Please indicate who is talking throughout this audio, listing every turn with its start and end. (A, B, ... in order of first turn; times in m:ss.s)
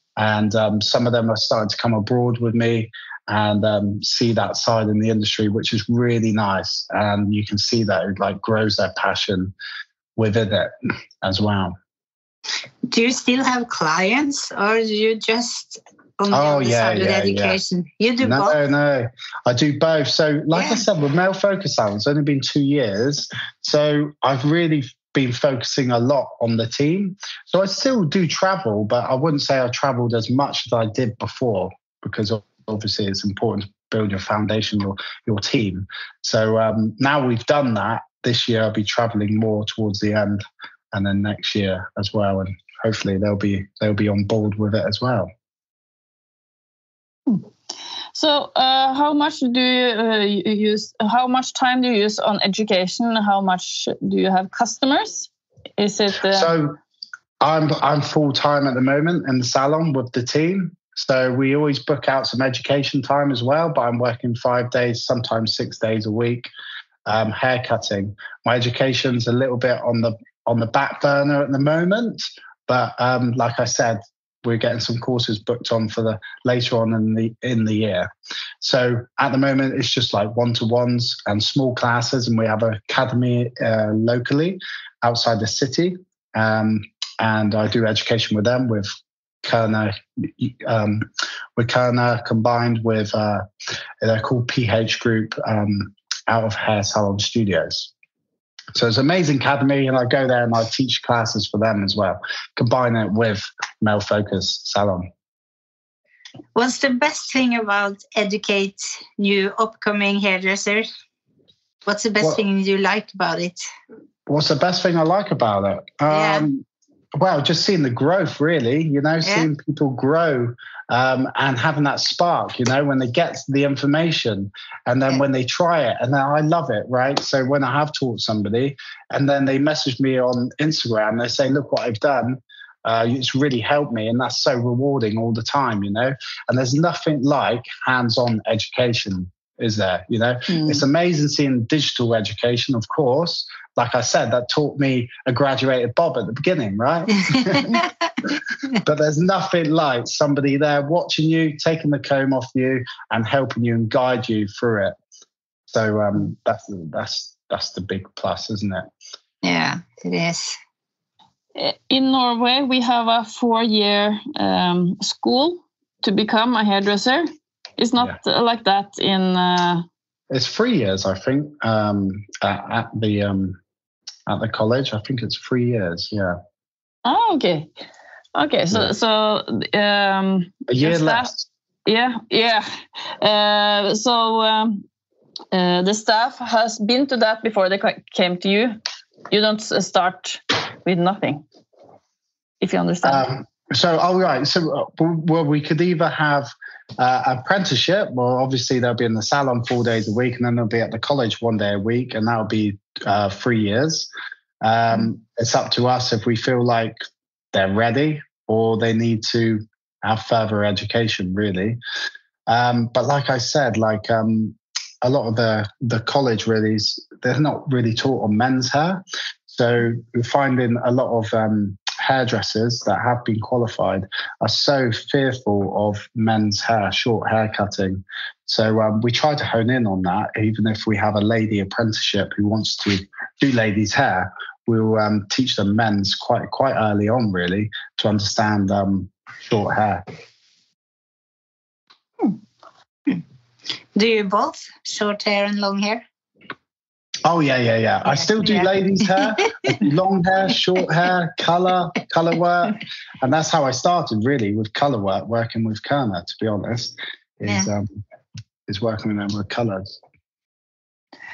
0:00.2-0:09.5 A
0:10.2-0:11.8 A
0:12.9-0:18.6 B
0:16.3-0:17.6 A
0:18.2-0:40.4 A
0:20.5-0:20.8 B
0:40.9-0:45.3 A
0:48.2-0:56.5 C
0:56.3-0:56.8 A
0:57.4-1:06.5 A
1:07.1-1:18.1 A
1:18.6-1:33.5 A
1:34.0-1:37.9 A
1:38.8-1:45.1 A
1:46.6-1:50.9 B
1:51.9-1:53.6 B
1:54.3-1:56.6 A
1:56.1-1:56.5 B
1:57.2-2:27.7 A
1:59.2-1:59.5 B
2:20.5-2:20.8 C
2:28.8-2:35.0 A
2:35.7-2:38.9 A
2:39.4-2:40.6 B
2:41.6-2:49.8 C
2:50.3-2:53.6 A
2:54.3-2:56.4 A
2:57.0-2:57.7 C
2:58.4-3:01.3 C
3:00.7-3:01.5 A
3:01.9-3:02.7 C
3:03.2-3:04.8 C
3:05.5-3:08.8 C
3:09.3-3:11.4 C
3:12.6-3:13.2 C
3:13.0-3:24.1 A
3:24.6-3:27.0 A
3:27.5-3:31.8 A
3:32.5-4:00.0 A
4:04.0-4:06.0 B
4:07.3-4:18.0 A
4:08.1-4:09.5 B
4:18.7-4:19.9 A